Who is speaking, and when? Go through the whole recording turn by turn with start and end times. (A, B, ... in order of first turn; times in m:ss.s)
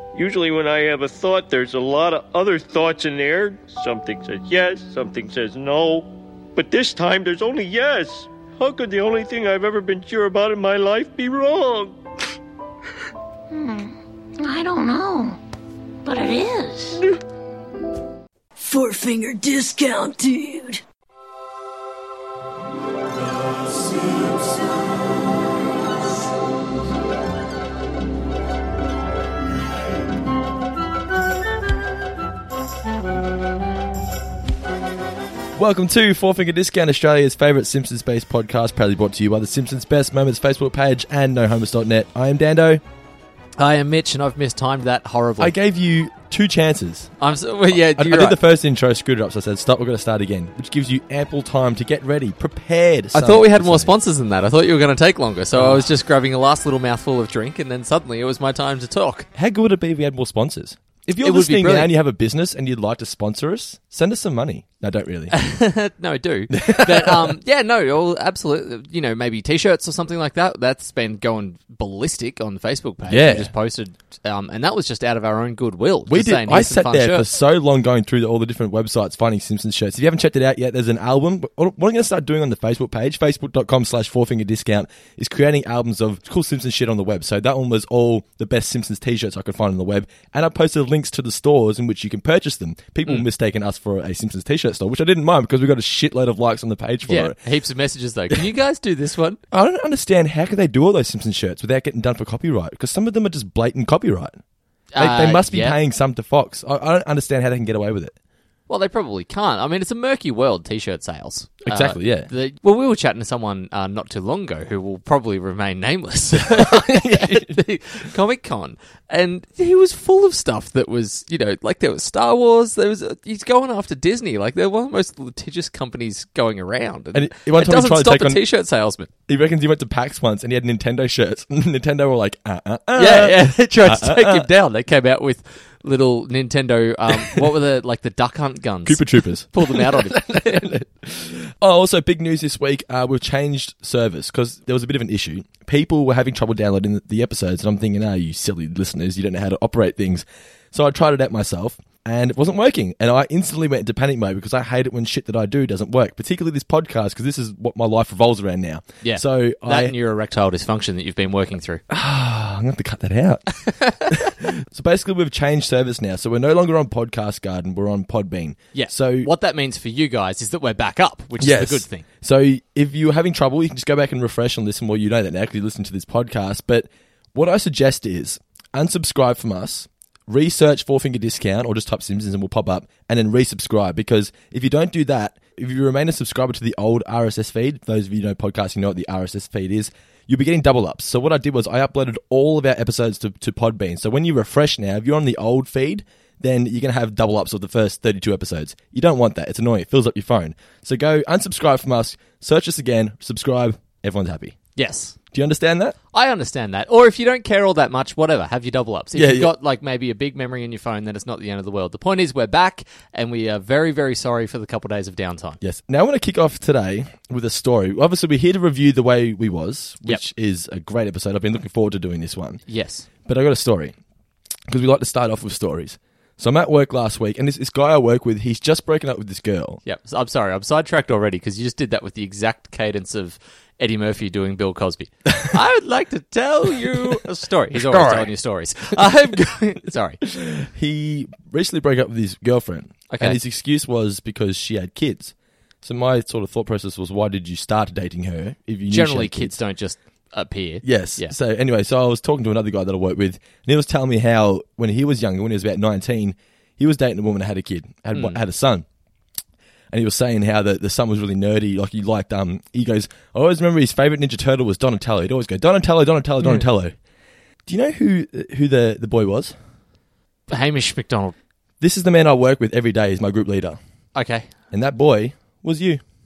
0:00.1-0:11.9 A
0:13.5-0:15.4 B
0:16.0-0:17.0 B
0:18.6-0:20.8 C
0:35.6-0:42.8 D
0:43.6-0:45.5 E
0:45.4-0:47.1 D
0:47.2-0:48.4 E
0:47.7-0:53.9 D
0:53.1-0:59.3 E
0:55.5-0:55.9 D
0:59.4-1:05.3 D
1:01.2-1:01.9 E
1:05.3-1:17.2 E
1:06.5-1:07.4 D
1:13.1-1:13.5 D
1:16.1-1:37.4 D
1:37.0-1:39.4 E
1:39.5-1:44.4 D
1:44.9-1:45.8 E
1:45.0-1:48.1 D
1:48.7-2:09.1 E
1:51.6-1:52.3 D
1:56.4-1:57.6 D
2:07.1-2:08.4 D
2:09.3-2:14.5 D
2:12.9-2:20.8 E
2:18.8-2:40.0 D
2:39.0-2:41.8 E
2:41.9-2:43.4 D
2:43.6-2:44.2 E
2:44.1-2:49.3 D
2:48.7-2:52.0 E
2:51.4-3:24.6 D
3:24.8-3:25.2 E
3:25.3-3:26.0 D
3:26.1-3:35.6 E
3:29.1-3:29.5 D
3:35.6-3:42.6 D
3:42.7-3:43.0 E
3:43.2-3:43.9 D
3:44.7-3:49.8 D
3:49.8-4:00.2 E
3:57.7-3:58.3 D
4:00.2-4:09.6 D
4:03.1-4:03.4 E
4:08.9-4:11.3 E
4:10.8-4:18.8 D
4:19.9-4:26.9 D
4:27.6-4:29.5 D
4:30.5-4:31.3 E
4:31.8-4:33.8 D
4:34.1-4:34.5 E
4:34.7-4:36.0 D